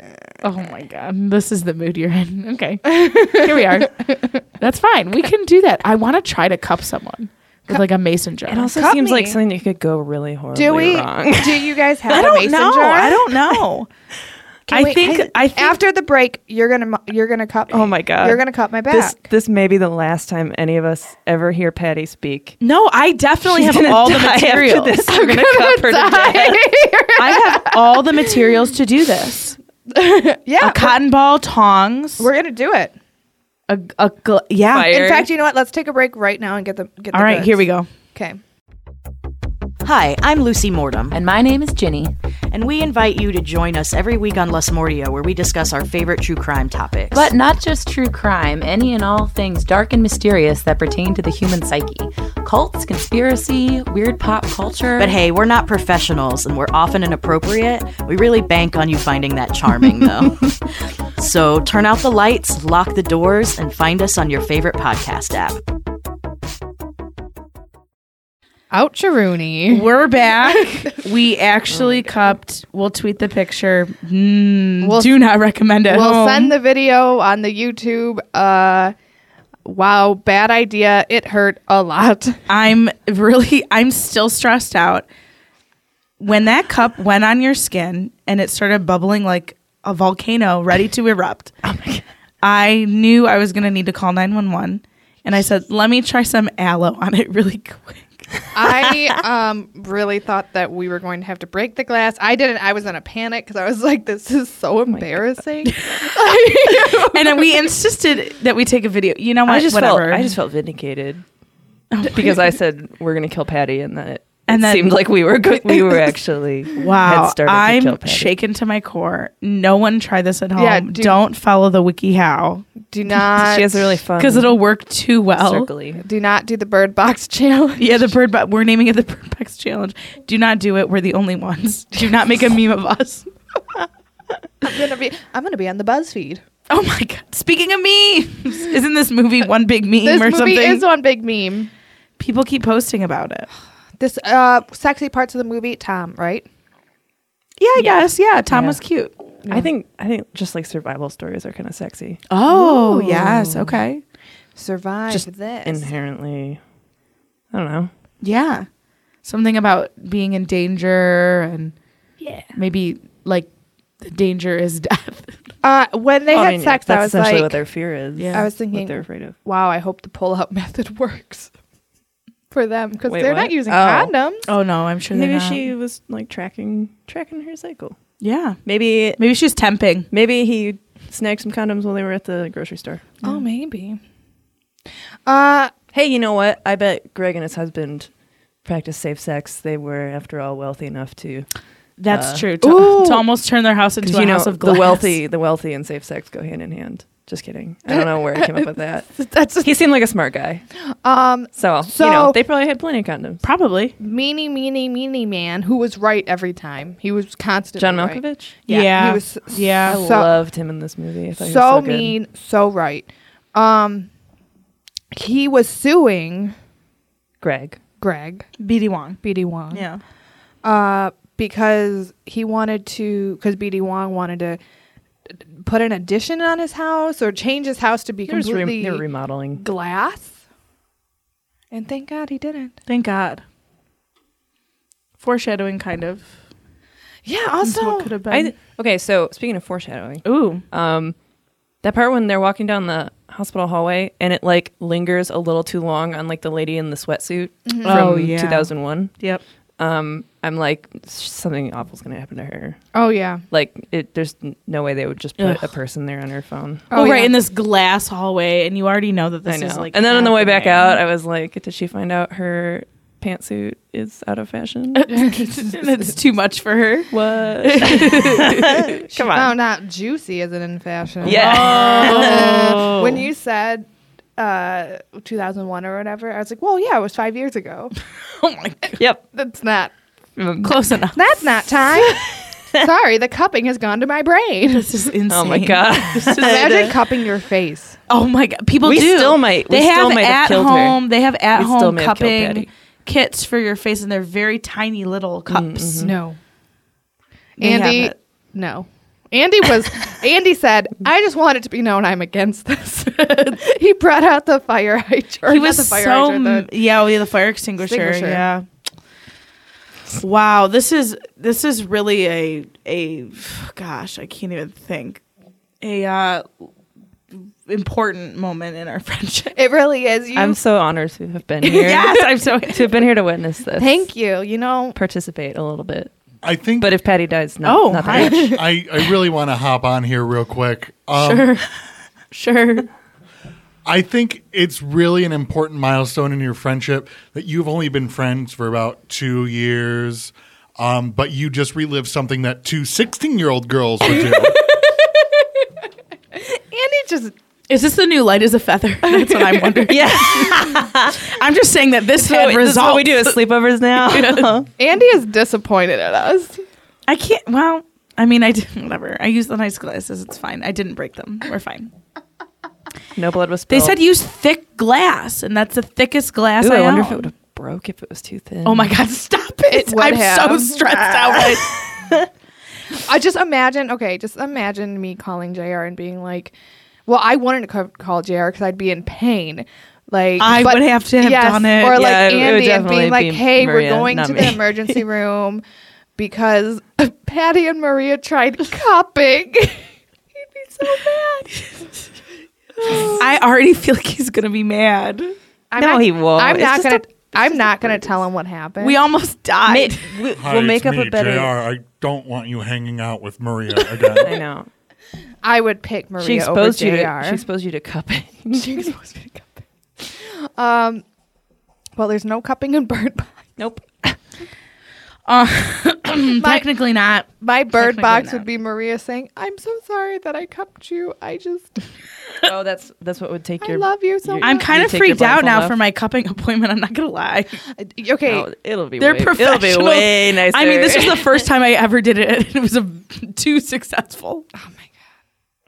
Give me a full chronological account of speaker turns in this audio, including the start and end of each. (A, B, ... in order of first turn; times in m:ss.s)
0:00.4-0:03.9 A
0:02.8-0:04.4 B
0:04.6-0:08.7 A
0:08.5-0:11.8 C
0:08.7-0:09.4 B
0:10.5-0:13.5 B
0:12.1-0:13.9 A
0:14.7-0:15.8 A
0:14.7-0:19.2 B
0:17.7-0:22.6 C
0:22.6-0:25.1 A
0:23.4-0:26.7 C
0:25.1-0:28.4 B
0:27.2-0:29.6 A
0:29.9-0:31.0 B
0:30.6-0:32.3 A
0:32.2-0:32.9 B
0:33.7-0:35.0 A
0:34.7-0:35.3 C
0:34.9-0:38.4 B
0:37.1-0:37.9 A
0:39.8-0:41.2 D
0:41.1-0:42.1 E
0:42.5-0:47.3 D
0:47.1-0:55.2 E
0:55.0-1:00.6 D
1:01.2-1:05.6 D
1:08.7-1:09.9 B
1:09.7-1:16.5 A
1:11.8-1:12.0 C
1:14.8-1:15.2 B
1:15.8-1:18.9 B
1:19.6-1:22.4 B
1:22.5-1:25.1 A
1:26.2-1:31.5 A
1:31.6-1:32.0 C
1:32.4-1:38.2 A
1:38.5-1:47.6 B
1:44.9-1:45.2 C
1:45.6-1:50.3 A
1:49.4-1:51.2 C
1:51.9-1:52.5 A
1:52.1-1:58.3 C
1:54.5-1:55.0 A
1:56.7-2:02.7 A
2:00.6-2:01.2 B
2:02.9-2:03.8 B
2:03.3-2:04.6 C
2:04.2-2:05.7 A
2:05.4-2:06.0 C
2:06.0-2:08.1 B
2:07.8-2:13.3 A
2:14.6-2:16.4 B
2:16.7-2:20.9 A
2:20.0-2:21.7 B
2:22.2-2:23.5 A
2:24.0-2:26.4 B
2:27.6-2:29.1 A
2:28.5-2:28.8 C
2:29.4-2:29.7 B
2:29.5-2:32.3 C
2:32.3-2:34.0 A
2:32.5-2:33.2 B
2:33.1-2:33.6 C
2:34.6-2:35.9 B
2:35.1-2:36.6 C
2:37.5-2:37.9 C
2:38.2-2:38.7 A
2:39.2-2:41.7 A
2:42.5-2:43.5 A
2:44.0-2:45.4 A
2:45.6-2:47.6 B
2:46.3-2:49.3 C
2:48.2-2:48.5 A
2:48.3-2:51.5 B
2:52.5-2:54.4 B
2:53.1-2:54.1 C
2:54.5-2:55.7 A
2:55.1-2:58.0 C
2:58.2-2:58.6 A
2:58.6-2:59.2 C
2:59.2-3:00.1 A
3:00.1-3:03.1 C
3:03.2-3:04.0 B
3:05.2-3:05.7 B
3:05.9-3:08.1 C
3:08.6-3:11.5 C
3:12.0-3:15.2 A
3:12.1-3:12.5 C
3:12.6-3:13.2 B
3:14.0-3:20.6 C
3:19.3-3:19.6 A
3:21.0-3:22.4 B
3:21.6-3:23.4 C
3:23.4-3:23.9 A
3:24.0-3:30.3 B
3:27.8-3:28.6 C
3:28.7-3:30.0 A
3:29.8-3:32.1 C
3:31.4-3:34.1 B
3:35.1-3:36.5 B
3:37.4-3:37.8 C
3:38.0-3:38.4 B
3:38.6-3:39.2 A
3:39.2-3:39.9 B
3:39.7-3:40.0 A
3:40.6-3:44.6 B
3:45.6-3:49.0 B
3:48.3-3:49.6 C
3:49.6-3:50.4 B
3:51.7-3:52.8 B
3:52.9-3:53.4 A
3:55.2-3:56.3 A
3:57.2-3:58.2 B
3:57.6-3:58.5 A
3:58.3-4:01.1 C
4:00.2-4:00.6 A
4:01.8-4:09.1 C
4:07.7-4:08.2 B
4:07.8-4:09.4 A
4:09.8-4:12.8 C
4:12.9-4:13.4 B
4:13.5-4:16.9 C
4:15.4-4:15.7 A
4:16.9-4:17.3 B
4:16.9-4:21.0 A
4:19.4-4:25.3 C
4:25.0-4:29.0 A
4:25.2-4:25.6 B
4:27.1-4:29.5 C
4:29.1-4:37.9 B
4:31.2-4:32.9 A
4:31.2-4:33.2 C
4:38.2-4:39.0 A
4:39.3-4:39.9 B
4:40.4-4:40.8 C
4:40.6-4:41.4 A
4:41.1-4:42.2 B
4:42.7-4:44.9 B
4:44.7-4:47.0 A
4:45.3-4:46.7 C
4:46.3-4:48.0 B
4:48.1-4:56.1 A
4:48.8-4:52.7 C
4:55.5-4:56.1 C
4:56.0-4:56.4 B
4:57.6-4:58.1 A
4:57.6-5:06.7 B
5:05.4-5:08.6 A
5:07.8-5:08.4 B
5:10.1-5:15.2 A
5:15.8-5:16.7 A
5:17.3-5:19.6 A
5:19.5-5:20.6 B
5:20.3-5:24.0 C
5:21.6-5:22.3 B
5:21.7-5:22.9 A
5:23.8-5:25.0 B
5:24.9-5:26.1 C
5:26.4-5:26.9 F
5:26.8-5:28.5 C
5:27.6-5:28.5 A
5:28.1-5:28.6 B
5:28.4-5:31.6 F
5:31.2-5:31.6 A
5:32.3-5:32.9 A
5:33.8-5:44.6 F
5:44.1-5:45.4 B
5:46.3-5:47.3 B
5:47.7-5:54.5 A
5:49.0-5:49.9 B
5:49.9-5:51.2 C
5:52.2-5:54.7 C
5:54.8-5:56.6 B
5:57.1-6:01.9 A
6:03.2-6:04.0 C
6:03.7-6:07.3 A
6:06.6-6:08.9 C
6:08.6-6:12.1 A
6:09.7-6:11.6 B
6:13.0-6:16.5 B
6:17.1-6:25.6 B
6:20.4-6:22.0 A
6:21.9-6:25.0 C
6:26.2-6:29.9 B
6:30.4-6:31.5 B
6:32.8-6:33.2 B
6:32.9-6:35.3 A
6:35.7-6:39.0 B
6:35.8-6:37.9 C
6:38.8-6:40.2 A
6:39.6-6:41.5 C
6:40.4-6:44.3 F
6:44.2-6:44.7 C
6:45.4-6:47.4 B
6:46.2-6:48.9 C
6:48.5-6:51.0 B
6:52.0-6:53.4 B
6:53.6-6:54.2 C
6:55.2-6:58.4 A
6:56.2-6:56.7 B
6:57.4-7:01.8 B
7:02.4-7:05.8 C
7:03.6-7:04.7 B
7:04.4-7:07.6 A
7:07.8-7:08.4 B
7:08.2-7:11.4 C
7:09.0-7:14.4 A
7:14.6-7:14.9 B